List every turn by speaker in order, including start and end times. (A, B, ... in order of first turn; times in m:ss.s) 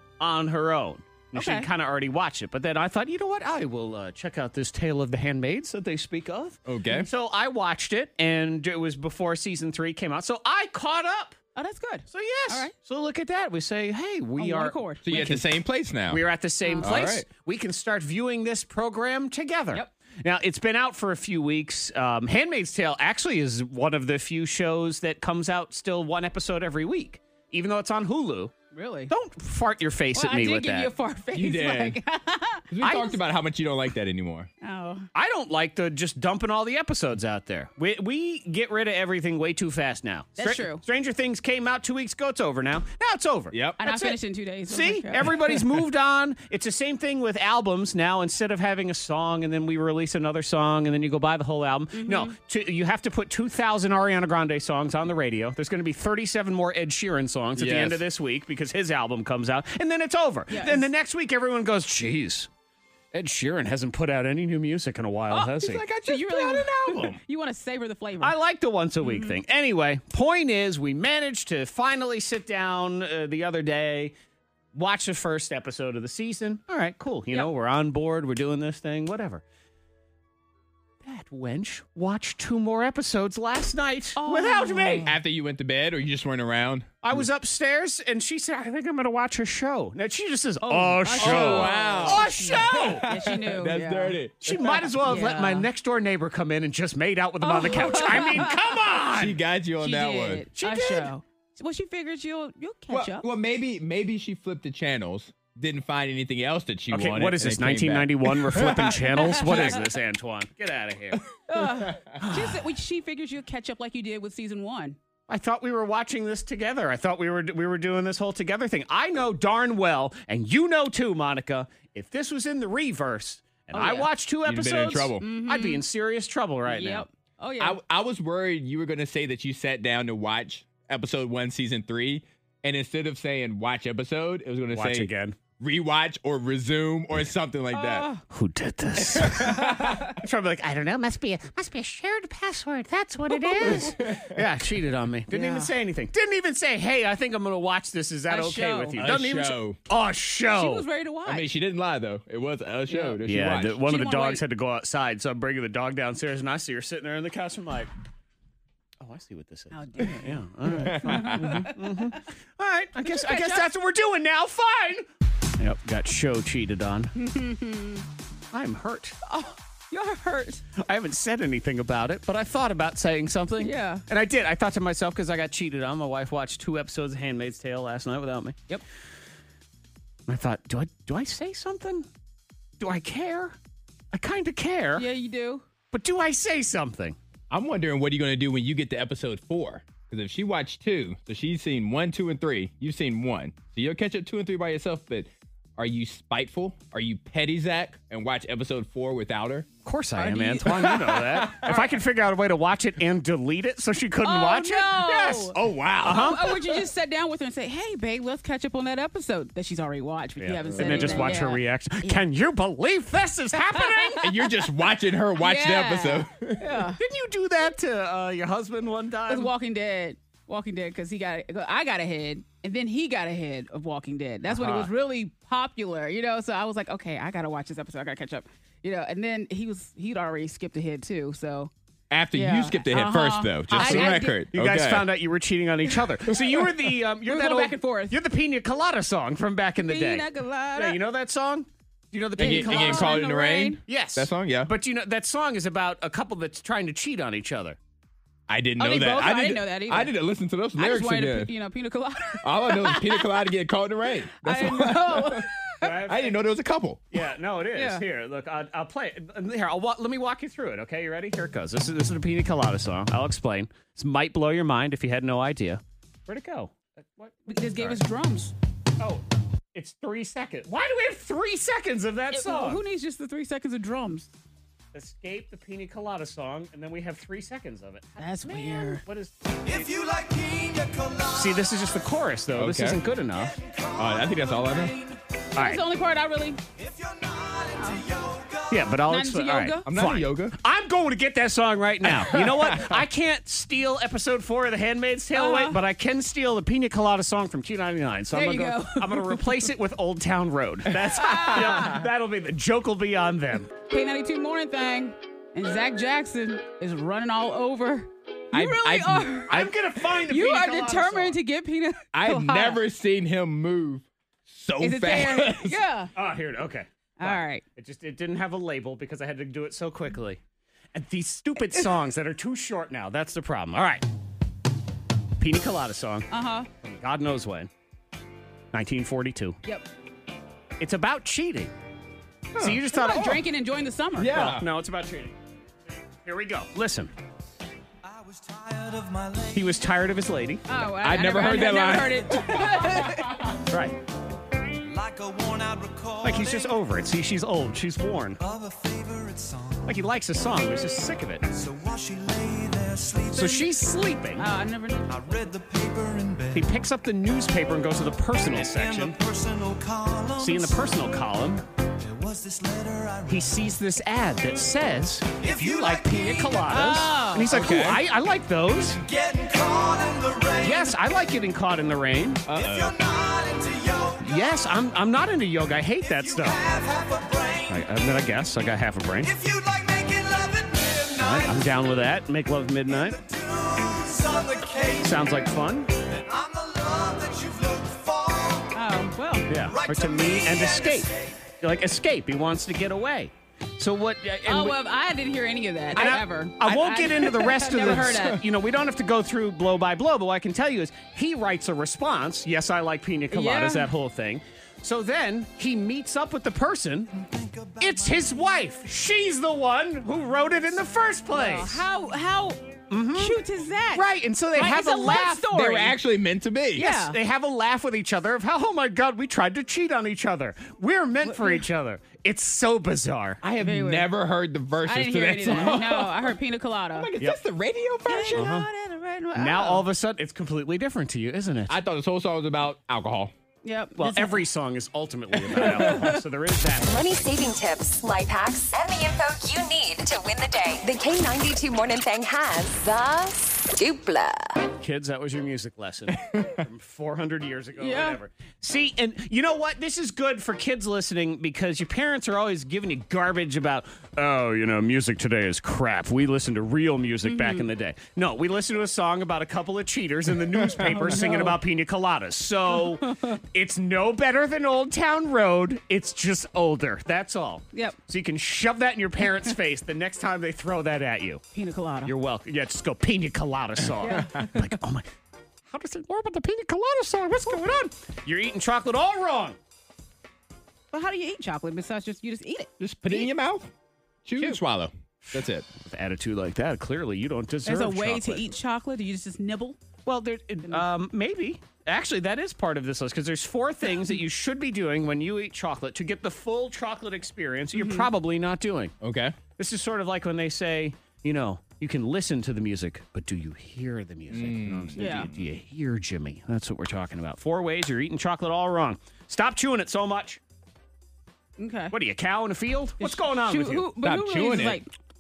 0:00.2-0:11.4 A
0:01.3-0:01.7 B
0:06.6-0:07.1 C
0:11.5-0:12.7 B
0:12.1-0:14.8 A
0:14.4-0:15.4 B
0:15.0-0:16.2 C
0:16.1-0:28.5 A
0:16.6-0:17.0 B
0:16.8-0:17.3 C
0:28.7-0:29.1 B
0:29.1-0:30.9 A
0:30.1-0:33.2 B
0:31.3-0:32.0 C
0:32.7-0:34.5 C
0:34.6-0:35.1 B
0:35.1-1:02.5 A
0:40.4-0:40.8 B
0:43.5-0:43.8 C
0:43.8-0:45.4 B
0:51.9-0:52.3 B
0:57.6-0:58.0 C
1:00.5-1:00.9 B
1:03.1-1:05.8 A
1:05.3-1:07.2 C
1:06.0-1:08.3 B
1:08.2-1:14.1 A
1:09.0-1:09.4 B
1:14.7-1:19.4 A
1:21.0-1:25.1 A
1:24.2-1:25.1 B
1:25.0-1:26.9 C
1:27.0-1:33.0 A
1:30.6-1:34.2 B
1:31.2-1:35.0 C
1:34.4-1:39.4 A
1:35.0-1:35.7 B
1:37.4-1:38.6 B
1:39.1-1:40.4 C
1:39.8-1:43.3 B
1:40.6-1:41.1 A
1:42.9-1:49.9 C
1:46.9-1:51.3 A
1:49.2-1:49.8 B
1:51.5-1:55.0 B
1:51.6-1:52.0 C
1:52.2-1:52.6 A
1:55.3-2:07.0 A
2:03.7-2:04.1 B
2:04.4-2:05.3 C
2:05.2-2:05.8 B
2:06.6-2:07.8 B
2:07.6-2:18.1 C
2:14.7-2:15.4 A
2:17.7-2:18.2 B
2:18.3-2:30.8 A
2:19.0-2:20.2 C
2:19.6-2:20.0 B
2:23.5-2:23.9 B
2:23.6-2:24.4 C
2:25.3-2:25.7 B
2:28.3-2:29.0 B
2:29.0-2:29.8 C
2:30.5-2:31.5 B
2:31.2-2:33.9 C
2:32.9-2:33.2 B
2:33.2-2:37.9 A
2:33.8-2:34.4 B
2:39.0-2:45.1 A
2:39.7-2:40.3 B
2:40.7-2:41.7 C
2:41.0-2:42.2 B
2:43.0-2:43.7 B
2:45.6-2:47.1 A
2:47.2-2:48.0 B
2:48.5-2:49.2 A
2:49.3-2:50.6 B
2:50.8-2:58.6 A
2:53.6-2:54.0 B
3:00.3-3:02.1 A
3:02.8-3:03.6 A
3:04.1-3:05.0 A
3:05.0-3:05.6 B
3:05.9-3:07.2 A
3:07.5-3:19.7 C
3:19.8-3:26.6 A
3:20.2-3:21.9 B
3:21.0-3:21.8 C
3:24.2-3:32.2 B
3:25.6-3:26.5 C
3:30.4-3:34.2 A
3:30.6-3:31.4 C
3:33.8-3:34.2 B
3:34.2-3:36.9 C
3:35.4-3:37.0 B
3:37.0-3:39.5 A
3:39.3-3:51.7 B
3:44.5-3:44.9 A
3:52.1-3:55.1 C
3:52.3-3:54.4 B
3:53.7-4:03.2 A
3:57.2-3:58.2 B
3:59.8-4:01.0 B
4:02.4-4:03.8 B
4:02.4-4:04.7 C
4:03.9-4:07.8 A
4:08.5-4:11.5 C
4:08.8-4:10.1 B
4:10.8-4:13.5 B
4:12.4-4:17.0 C
4:14.3-4:15.9 B
4:15.8-4:16.4 A
4:17.1-4:28.0 A
4:17.7-4:18.0 B
4:27.5-4:28.5 B
4:29.0-4:32.8 A
4:32.3-4:34.3 B
4:34.9-4:39.6 A
4:38.2-4:39.0 B
4:39.6-4:42.0 D
4:41.3-4:43.6 A
4:42.5-4:43.0 C
4:43.3-4:45.2 D
4:44.0-4:45.0 C
4:45.5-4:45.8 A
4:45.6-4:46.6 B
4:46.7-4:49.0 D
4:47.8-4:48.0 B
4:48.7-5:03.7 A
4:49.0-4:49.8 B
4:49.8-4:50.6 C
4:52.2-4:53.0 C
4:55.3-4:55.8 B
4:58.3-4:59.6 B
5:01.1-5:02.0 B
5:03.9-5:09.6 B
5:08.5-5:09.7 C
5:09.5-5:11.4 A
5:10.2-5:12.8 B
5:12.1-5:15.8 C
5:14.8-5:16.1 B
5:16.1-5:20.4 A
5:17.2-5:17.6 B
5:20.9-5:24.0 A
5:25.4-5:26.3 A
5:26.3-5:26.7 B
5:26.8-5:27.7 A
5:28.7-5:29.6 A
5:30.8-5:31.7 A
5:32.5-5:32.8 C
5:32.6-5:33.4 A
5:32.9-5:34.4 B
5:34.2-5:34.6 C
5:34.3-5:35.4 A
5:36.2-5:37.1 A
5:38.0-5:39.8 D
5:39.5-5:40.7 A
5:40.7-5:43.5 B
5:41.0-5:43.0 C
5:43.7-5:44.0 A
5:44.8-5:46.8 D
5:46.2-5:48.4 A
5:48.4-5:50.1 D
5:49.8-5:51.4 A
5:51.5-5:53.7 D
5:53.3-5:54.5 A
5:54.4-5:55.4 B
5:55.1-5:56.8 D
5:56.5-5:59.2 A
5:58.3-6:01.2 D
6:00.4-6:01.6 A
6:02.0-6:03.8 D
6:03.3-6:09.0 A
6:05.4-6:06.7 D
6:06.7-6:07.5 B
6:07.4-6:08.0 C
6:08.8-6:11.0 D
6:10.6-6:12.4 A
6:12.5-6:13.0 C
6:12.5-6:14.7 D
6:14.2-6:16.6 A
6:16.0-6:17.9 D
6:17.7-6:19.3 A
6:19.2-6:21.8 D
6:21.2-6:23.2 A
6:22.9-6:28.8 D
6:25.0-6:25.9 A
6:28.7-6:29.5 B
6:29.5-6:34.8 A
6:29.6-6:31.4 D
6:34.4-6:38.4 B
6:35.9-6:47.1 A
6:38.0-6:38.4 C
6:43.3-6:43.9 B
6:47.1-6:48.7 D
6:47.8-6:51.8 A
6:50.0-6:50.9 D
6:51.3-6:52.6 B
6:52.9-6:53.4 A
6:53.1-6:56.0 B
6:53.9-6:55.5 A
6:55.5-6:56.8 C
6:56.7-7:03.4 A
6:56.8-6:57.2 B
7:01.2-7:01.7 B
7:03.4-7:06.3 C
7:03.6-7:04.1 B
7:04.8-7:07.1 B
7:06.9-7:08.6 C
7:08.0-7:09.8 B
7:08.3-7:08.7 A
7:09.3-7:11.8 A
7:11.7-7:13.3 C
7:13.6-7:14.4 B
7:14.0-7:16.9 A
7:15.5-7:16.2 B
7:16.9-7:24.5 E
7:24.8-7:51.4 A
7:27.8-7:28.2 B
7:37.2-7:37.7 B
7:40.5-7:41.4 C
7:40.8-7:41.6 B
7:43.0-7:43.4 B
7:51.5-7:52.1 B
7:52.0-7:55.1 A
7:54.0-7:54.7 B
7:54.2-7:54.4 C
7:55.7-7:59.6 A
8:00.9-8:02.7 B
8:02.8-8:03.7 C
8:04.2-8:05.6 C
8:05.2-8:08.4 A
8:07.6-8:09.8 B
8:10.0-8:18.9 A
8:17.7-8:18.1 B
8:19.0-8:19.4 C
8:19.6-8:30.4 A
8:24.3-8:25.4 C
8:25.0-8:25.3 B
8:31.6-8:31.9 B
8:31.9-8:33.9 A
8:33.0-8:34.9 B
8:34.0-8:34.8 C